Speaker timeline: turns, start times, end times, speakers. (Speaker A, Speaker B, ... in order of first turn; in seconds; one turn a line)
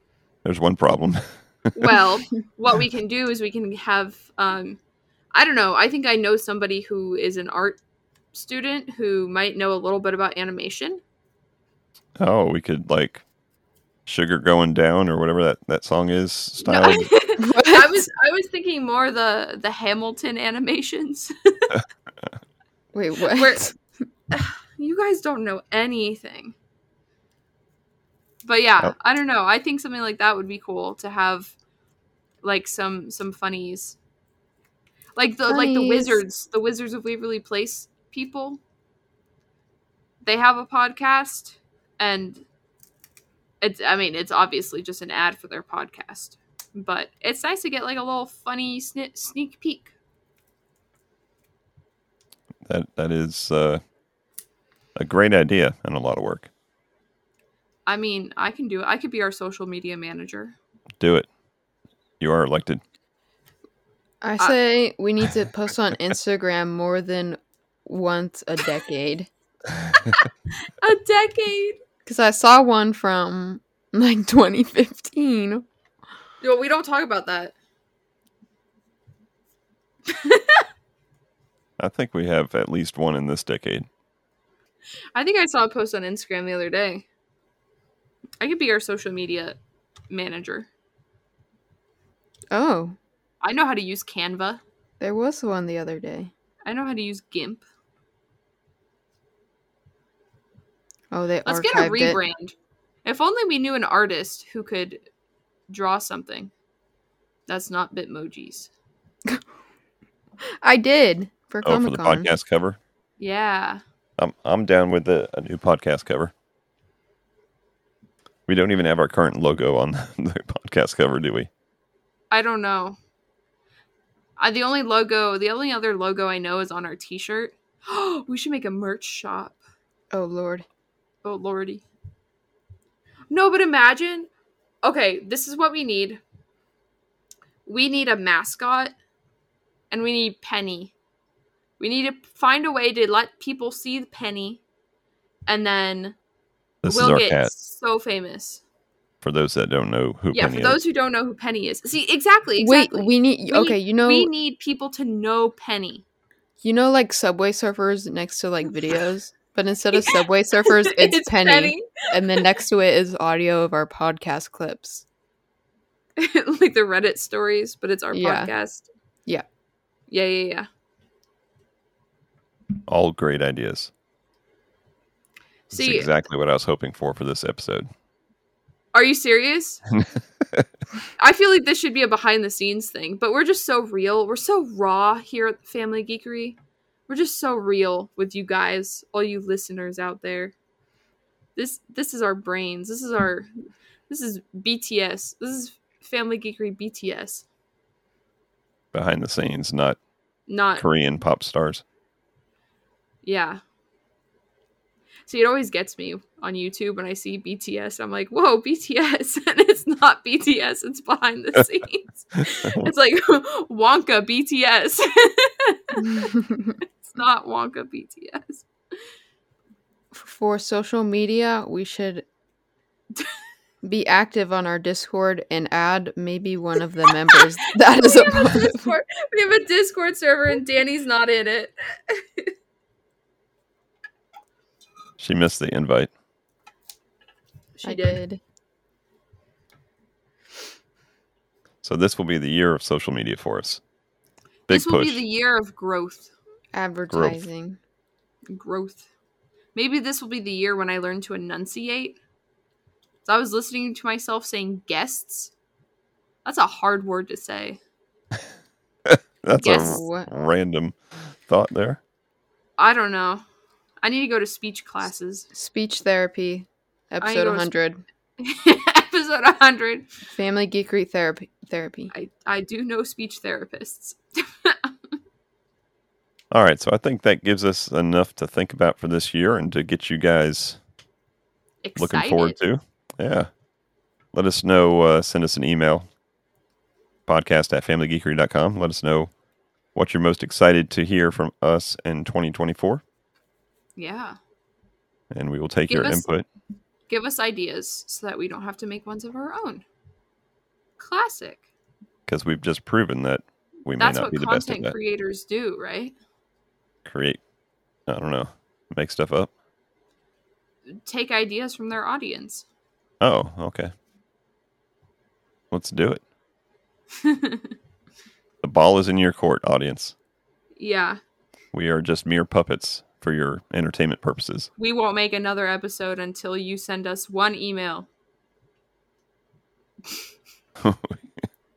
Speaker A: 0.4-1.9
Speaker B: 1.8-4.8
Speaker B: 5.3-7.8
Speaker B: 8.3-11.0
Speaker A: 12.2-13.2
Speaker A: 14.1-17.1
Speaker B: 16.6-21.8
Speaker C: 17.4-18.0
Speaker C: 22.9-23.8
Speaker B: 23.3-23.6
Speaker B: 24.3-26.6
Speaker B: 28.4-31.5
Speaker B: 32.4-34.0
Speaker B: 35.2-38.6
Speaker C: 35.5-36.2
Speaker B: 40.2-42.5
Speaker B: 43.6-49.9
Speaker A: 52.7-53.8
Speaker A: 55.0-56.5
Speaker B: 57.9-60.6
Speaker A: 61.0-61.3
Speaker A: 62.2-62.8
Speaker C: 64.2-69.3
Speaker B: 70.2-71.8
Speaker C: 72.0-75.7
Speaker B: 76.4-77.5
Speaker B: 80.1-80.7
Speaker A: 81.8-83.9
Speaker B: 85.2-87.1
Speaker B: 88.4-89.6
Speaker B: 90.1-90.7
Speaker C: 92.5-93.0
Speaker B: 93.4-94.6
Speaker C: 95.0-96.3
Speaker B: 96.7-97.6
Speaker C: 101.1-102.2
Speaker B: 101.5-102.5
Speaker B: 103.0-105.0
Speaker B: 105.7-106.5
Speaker B: 107.5-108.7
Speaker C: 110.6-112.3
Speaker A: 111.6-112.8
Speaker B: 113.2-113.8
Speaker A: 114.2-116.3
Speaker A: 118.5-121.5
Speaker B: 122.3-123.0
Speaker B: 124.4-129.6
Speaker C: 130.1-130.7
Speaker B: 131.2-131.9
Speaker B: 133.3-134.3
Speaker B: 134.8-136.2
Speaker B: 137.7-138.9
Speaker B: 139.9-140.9
Speaker B: 141.8-144.6
Speaker B: 145.5-146.2
Speaker A: 146.8-147.5
Speaker B: 146.9-148.6
Speaker A: 149.2-150.8
Speaker B: 150.3-156.0
Speaker C: 152.6-154.3
Speaker C: 156.6-165.1
Speaker B: 159.9-162.4
Speaker B: 166.2-168.9
Speaker C: 168.1-168.5
Speaker B: 170.1-170.7
Speaker A: 172.9-173.9
Speaker B: 175.7-176.1
Speaker A: 175.7-177.9
Speaker B: 178.9-179.8
Speaker B: 181.2-186.6
Speaker B: 187.1-190.5
Speaker B: 191.6-193.5
Speaker B: 194.1-197.5
Speaker A: 198.9-200.0
Speaker B: 200.5-200.8
Speaker A: 200.8-201.8
Speaker B: 203.2-203.6
Speaker B: 205.3-216.3
Speaker A: 212.5-212.9
Speaker C: 216.0-216.8
Speaker B: 217.0-218.7
Speaker C: 220.1-222.3
Speaker C: 223.8-228.9
Speaker B: 227.3-232.5
Speaker A: 235.2-236.1
Speaker B: 237.8-238.2
Speaker C: 237.8-238.4
Speaker A: 241.8-243.8
Speaker A: 244.7-245.2
Speaker B: 244.7-246.3
Speaker C: 246.7-247.8
Speaker A: 247.1-247.4
Speaker B: 248.5-249.1
Speaker B: 249.8-252.2
Speaker B: 253.2-255.5
Speaker B: 256.4-257.8
Speaker A: 259.1-261.0
Speaker B: 259.6-260.1
Speaker C: 259.6-260.3
Speaker A: 261.5-262.0
Speaker B: 262.8-263.4
Speaker B: 264.0-265.5
Speaker C: 265.5-268.0
Speaker B: 267.2-267.7
Speaker B: 268.4-270.1
Speaker C: 270.3-272.1
Speaker B: 272.1-274.9
Speaker A: 276.5-280.8
Speaker B: 281.8-282.6
Speaker A: 282.0-283.5
Speaker A: 284.3-286.1
Speaker A: 287.3-289.3
Speaker A: 289.9-293.0
Speaker B: 294.0-294.4
Speaker A: 295.3-296.5
Speaker B: 295.9-296.2
Speaker B: 297.1-299.9
Speaker B: 301.0-301.6
Speaker A: 302.3-304.9
Speaker B: 304.0-306.1
Speaker A: 307.1-307.4
Speaker A: 308.1-309.5
Speaker B: 311.1-312.7
Speaker A: 313.2-313.9
Speaker A: 315.7-316.2
Speaker B: 317.2-317.7
Speaker A: 318.6-320.1
Speaker B: 320.8-321.2
Speaker A: 321.7-324.7
Speaker B: 324.8-328.1
Speaker A: 330.8-331.2